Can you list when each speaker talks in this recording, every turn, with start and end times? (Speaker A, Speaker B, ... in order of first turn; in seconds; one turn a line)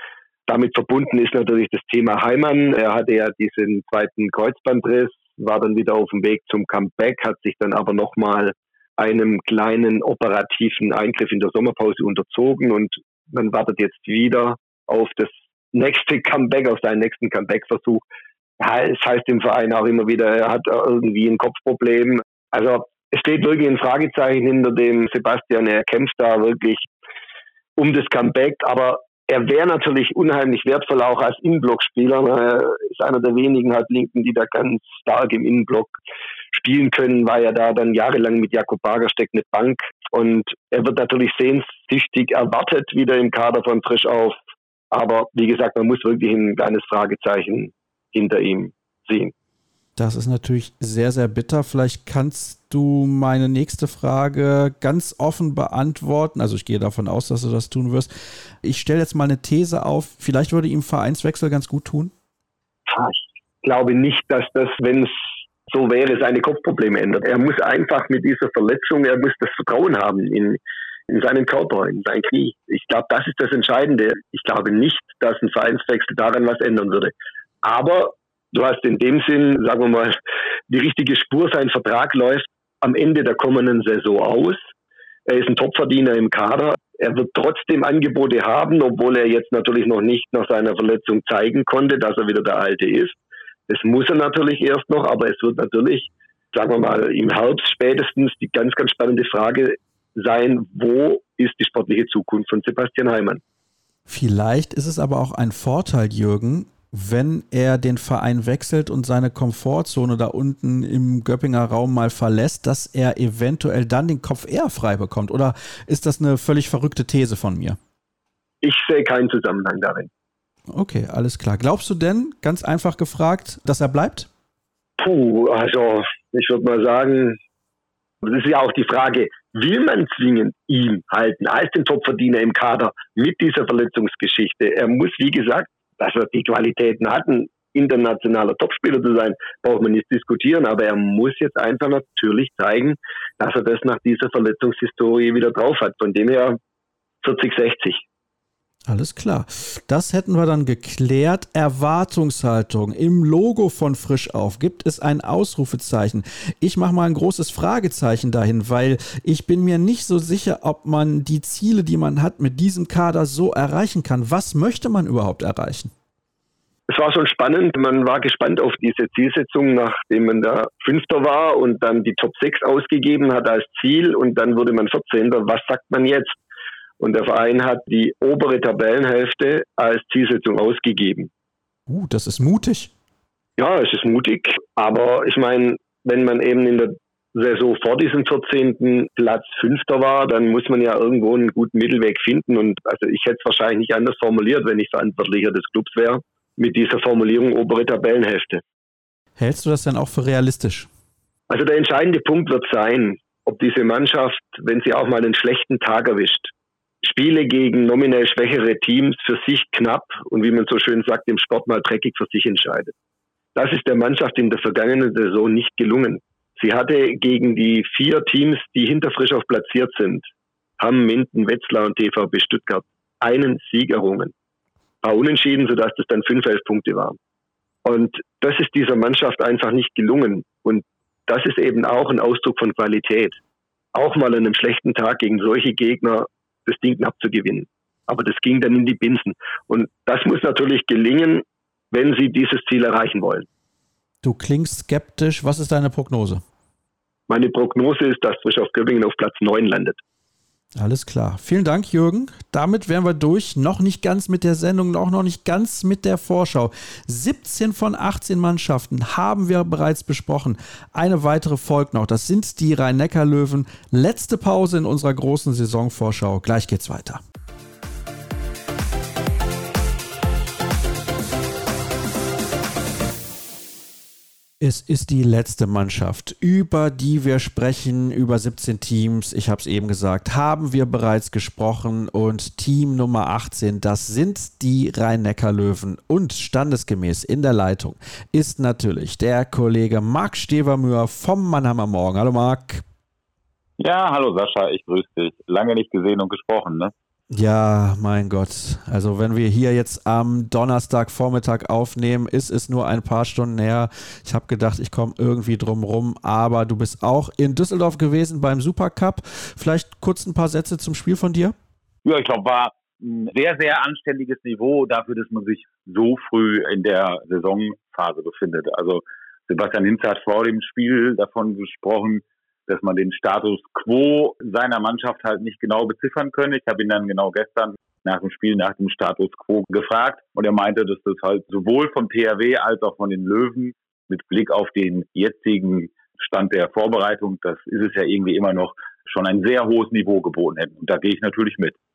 Speaker A: 0.5-18.0
Speaker A: 18.6-26.8
Speaker A: 27.8-36.0
Speaker A: 36.5-44.4
Speaker A: 44.9-49.3
Speaker B: 50.0-62.1
Speaker A: 62.9-65.1
Speaker A: 65.7-80.2
Speaker A: 80.7-84.6
Speaker A: 85.3-93.2
Speaker A: 93.7-103.4
Speaker B: 104.1-117.8
Speaker A: 118.6-120.1
Speaker B: 120.7-124.3
Speaker A: 125.0-127.4
Speaker A: 128.2-146.6
Speaker A: 147.2-148.0
Speaker B: 148.9-165.9
Speaker A: 166.9-176.3
Speaker A: 177.0-181.3
Speaker B: 181.9-182.9
Speaker A: 183.6-198.6
Speaker B: 199.4-200.9
Speaker A: 201.5-206.5
Speaker A: 207.0-212.9
Speaker A: 213.5-224.3
Speaker A: 225.0-227.2
Speaker A: 227.8-233.4
Speaker A: 233.9-243.4
Speaker B: 244.2-246.4
Speaker A: 247.3-250.0
Speaker B: 250.7-267.2
Speaker B: 274.6-292.8
Speaker C: 293.8-296.9
Speaker B: 297.3-311.5
Speaker C: 312.0-341.8